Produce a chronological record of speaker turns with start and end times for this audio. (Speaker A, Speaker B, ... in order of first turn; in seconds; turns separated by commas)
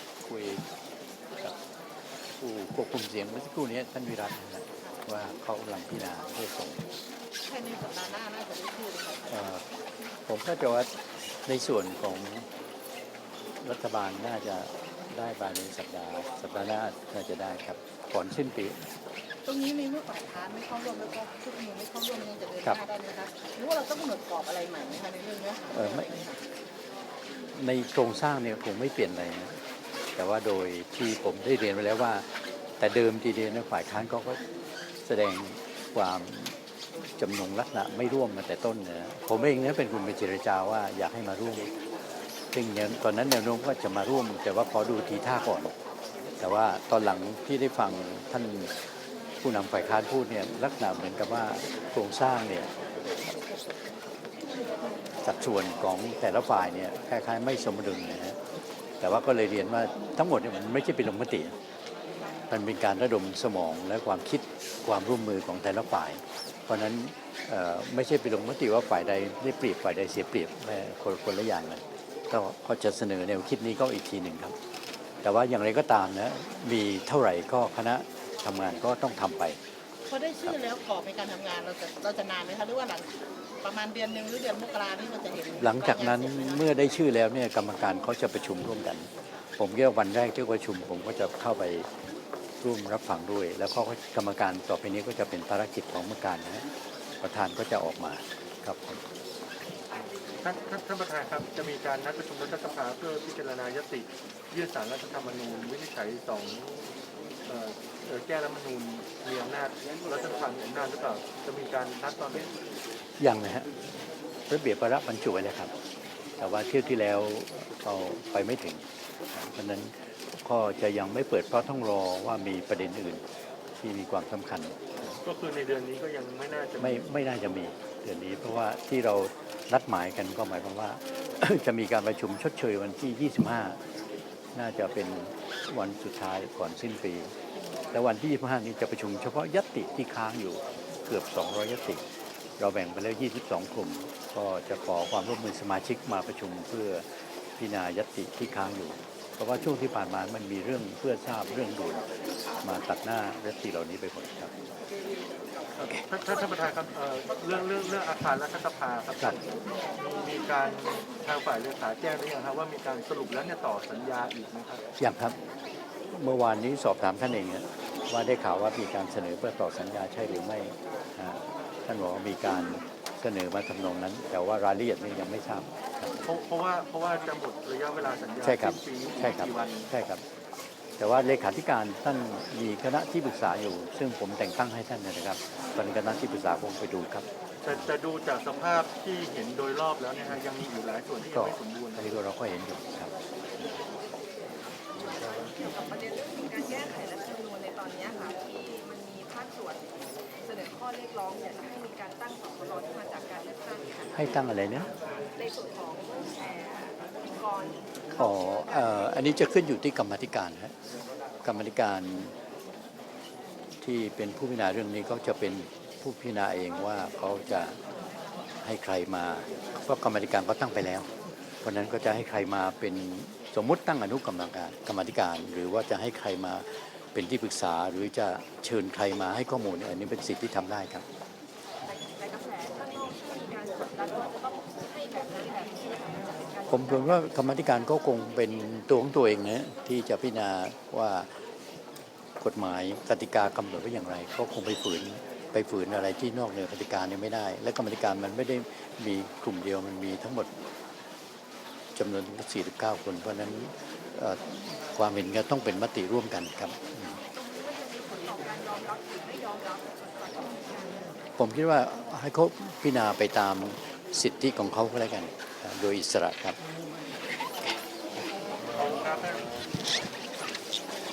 Speaker A: 0.2-0.6, Speaker A: 2.4-6.8, Speaker B: 7.5-9.5, Speaker A: 9.3-9.6, Speaker A: 10.3-10.9, Speaker A: 11.5-12.5, Speaker A: 13.6-18.8, Speaker B: 19.4-26.4, Speaker A: 25.7-26.1, Speaker A: 27.5-29.6, Speaker A: 30.2-32.3, Speaker A: 32.8-34.4, Speaker A: 35.0-36.5, Speaker A: 37.2-41.7, Speaker A: 42.5-45.7, Speaker A: 46.4-48.7, Speaker A: 49.4-52.7, Speaker A: 55.2-58.4, Speaker A: 59.0-61.6, Speaker A: 62.5-74.5, Speaker A: 75.2-79.6, Speaker B: 80.1-86.6, Speaker A: 85.6-91.9, Speaker A: 92.6-96.7, Speaker A: 97.2-99.0, Speaker C: 99.9-106.9, Speaker C: 107.5-112.5, Speaker A: 113.2-113.7, Speaker A: 114.5-115.7, Speaker A: 116.4-123.2, Speaker A: 123.8-124.8, Speaker C: 125.2-127.1, Speaker A: 126.8-133.8, Speaker A: 134.6-137.3, Speaker A: 137.9-142.0, Speaker A: 142.6-147.1, Speaker A: 147.6-152.1, Speaker A: 152.6-154.5, Speaker C: 155.8-159.4, Speaker C: 160.0-164.8, Speaker A: 165.0-165.4, Speaker A: 166.1-176.2, Speaker C: 176.2-179.9, Speaker A: 178.4-180.2, Speaker A: 181.0-187.8, Speaker C: 187.6-192.2, Speaker A: 191.3-193.1, Speaker D: 195.0-199.9, Speaker D: 200.4-209.5, Speaker A: 204.1-204.9, Speaker A: 208.1-210.8, Speaker A: 211.4-212.3, Speaker A: 213.8-217.8, Speaker D: 217.1-218.3, Speaker A: 218.6-221.1, Speaker A: 221.6-231.0, Speaker D: 231.8-237.3, Speaker A: 236.7-241.3, Speaker A: 242.4-250.5, Speaker A: 252.0-257.2, Speaker D: 257.1-261.1, Speaker A: 261.4-266.6, Speaker C: 268.8-269.5